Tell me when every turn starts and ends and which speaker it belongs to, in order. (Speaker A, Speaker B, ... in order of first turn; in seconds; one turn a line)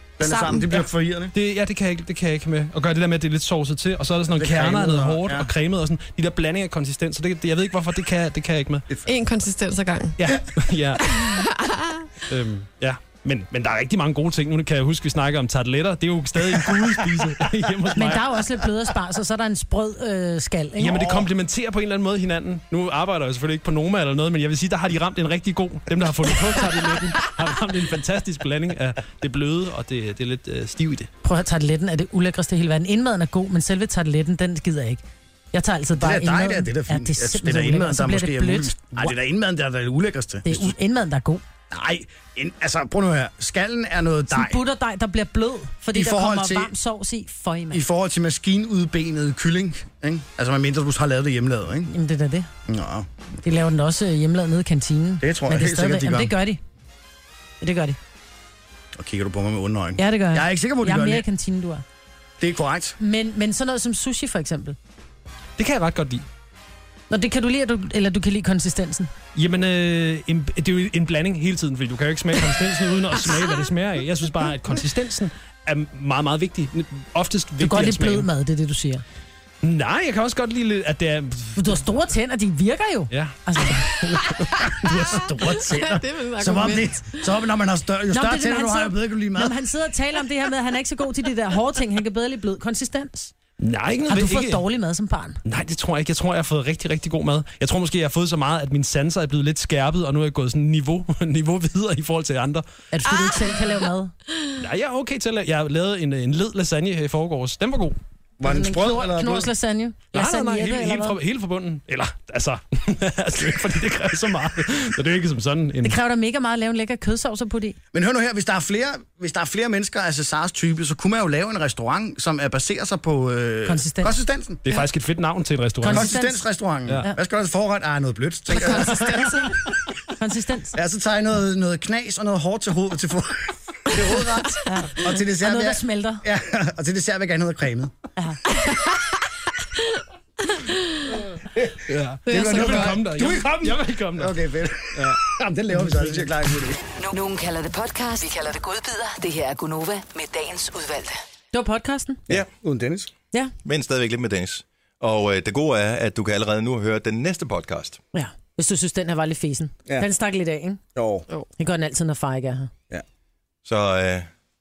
Speaker A: 0.2-1.3
Speaker B: 0.2-0.7
Speaker C: 1.3-8.8
Speaker A: 4.4-5.5
Speaker B: 9.1-10.3
Speaker C: 10.2-11.1
Speaker B: 11.1-12.1
Speaker C: 12.3-18.3
Speaker D: 17.9-21.2
Speaker C: 20.8-31.1
Speaker A: 20.9-21.3
Speaker D: 31.2-39.1
Speaker A: 36.0-40.8
Speaker D: 40.5-41.4
Speaker A: 41.7-44.6
Speaker D: 44.3-47.8
Speaker A: 45.9-46.7
Speaker A: 47.7-51.9
Speaker D: 51.9-52.5
Speaker A: 52.7-53.1
Speaker D: 53.4-56.6
Speaker A: 55.2-56.3
Speaker D: 57.6-58.0
Speaker A: 59.0-61.2
Speaker D: 60.0-61.8
Speaker A: 62.4-63.0
Speaker D: 63.0-64.8
Speaker C: 65.6-66.2
Speaker D: 67.1-69.1
Speaker C: 69.3-78.3
Speaker D: 77.6-79.0
Speaker C: 79.6-81.6
Speaker D: 81.5-84.2
Speaker C: 83.1-84.4
Speaker A: 84.8-89.5
Speaker B: 85.4-87.2
Speaker D: 88.1-93.3
Speaker C: 93.6-94.6
Speaker D: 94.1-95.4
Speaker C: 95.5-102.7
Speaker D: 102.9-104.1
Speaker C: 104.6-108.0
Speaker A: 108.4-109.5
Speaker D: 108.4-111.2
Speaker C: 110.1-116.0
Speaker D: 115.8-117.8
Speaker A: 117.9-124.6
Speaker D: 123.7-124.1
Speaker C: 124.7-126.1
Speaker D: 125.8-126.5
Speaker A: 125.9-129.6
Speaker D: 128.6-129.5
Speaker B: 128.6-129.3
Speaker D: 130.2-130.8
Speaker A: 130.8-137.9
Speaker D: 134.7-136.2
Speaker B: 140.6-141.1
Speaker A: 141.5-146.8
Speaker C: 141.9-144.4
Speaker B: 142.3-143.0
Speaker C: 144.9-145.2
Speaker C: 145.8-146.2
Speaker E: 147.0-151.2
Speaker D: 151.5-152.3
Speaker A: 152.3-153.1
Speaker F: 153.7-158.0
Speaker D: 158.1-160.8
Speaker A: 160.9-161.3
Speaker D: 161.6-162.7
Speaker F: 163.7-164.3